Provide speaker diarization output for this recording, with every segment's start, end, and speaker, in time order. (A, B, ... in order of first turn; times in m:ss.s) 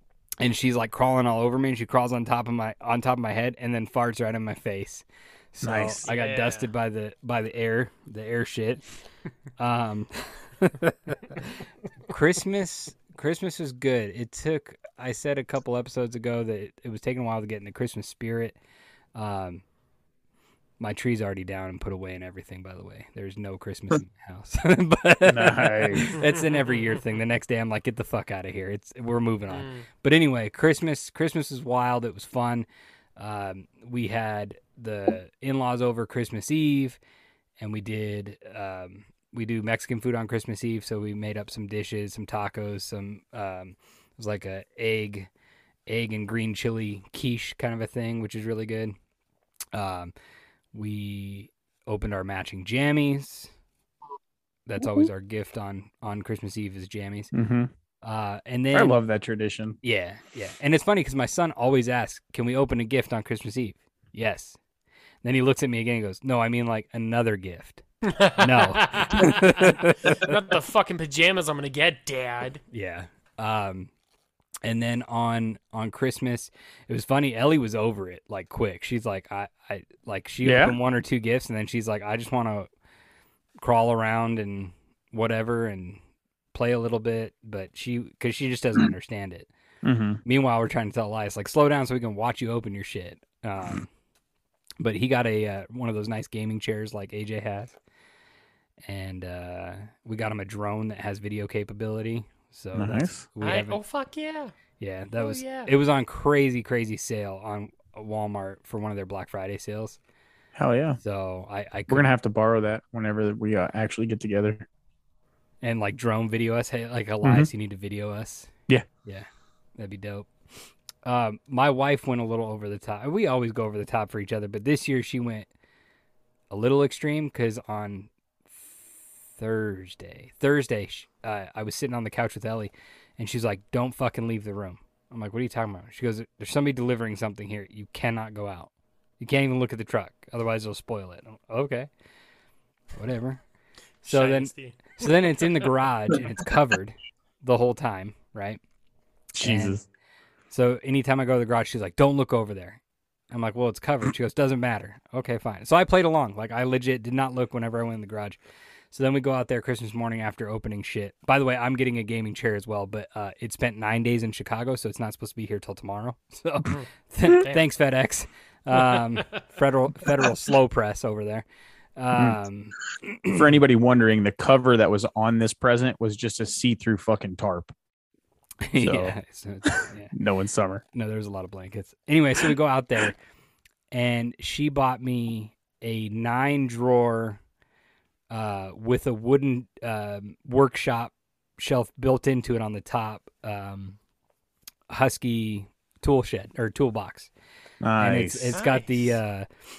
0:00.4-0:08.8 A
0:05.6-0:06.0 B
0:06.0-0:06.7 C
0:09.6-0:11.5 A
0:12.1-0:18.6 A
0:19.1-0:19.6 A
0:20.8-0:37.0 A
0:25.2-0:26.2 B
0:29.5-0:29.9 C
0:37.6-0:45.3 A
0:45.9-0:49.0 A
0:49.7-0:50.1 A
0:50.7-0:53.5 A
0:54.7-0:57.3 A
0:57.3-0:57.7 B
0:58.0-0:59.0 A
0:58.7-0:59.8 B
0:59.8-1:04.6 A
1:05.2-1:07.8 A
1:08.1-1:12.6 C
1:08.4-1:10.2 A
1:12.7-1:13.9 A
1:14.6-1:22.7 A
1:20.4-1:20.8 B
1:23.6-1:26.0 A
1:26.5-1:29.5 A
1:29.8-1:30.2 B
1:30.2-1:33.9 A
1:34.8-1:37.8 A
1:38.8-1:43.8 A
1:42.7-1:43.2 B
1:43.4-1:44.5 C
1:44.8-1:50.0 A
1:45.2-1:45.7 C
1:50.5-1:51.0 B
1:51.0-1:52.0 A
1:51.9-1:54.7 B
1:55.6-1:58.5 A
1:57.2-1:57.5 B
1:59.0-2:00.3 A
2:01.0-2:05.5 A
2:06.5-2:08.8 A
2:09.4-2:21.9 A
2:22.9-2:23.4 A
2:24.0-2:25.7 C
2:24.0-2:28.6 A
2:29.3-2:29.8 B
2:29.4-2:29.8 A
2:30.5-2:32.8 A
2:33.3-2:38.4 A
2:38.9-2:51.4 A
2:46.6-2:47.6 C
2:48.9-2:49.4 C
2:52.0-2:53.4 A
2:53.3-2:57.7 B
2:58.6-3:00.1 A
2:58.7-2:59.2 B
3:00.1-3:00.8 B
3:00.9-3:03.2 A
3:03.9-3:07.4 A
3:08.3-3:14.0 A
3:14.9-3:17.3 A
3:17.8-3:18.6 B
3:18.0-3:19.5 A
3:18.5-3:19.2 C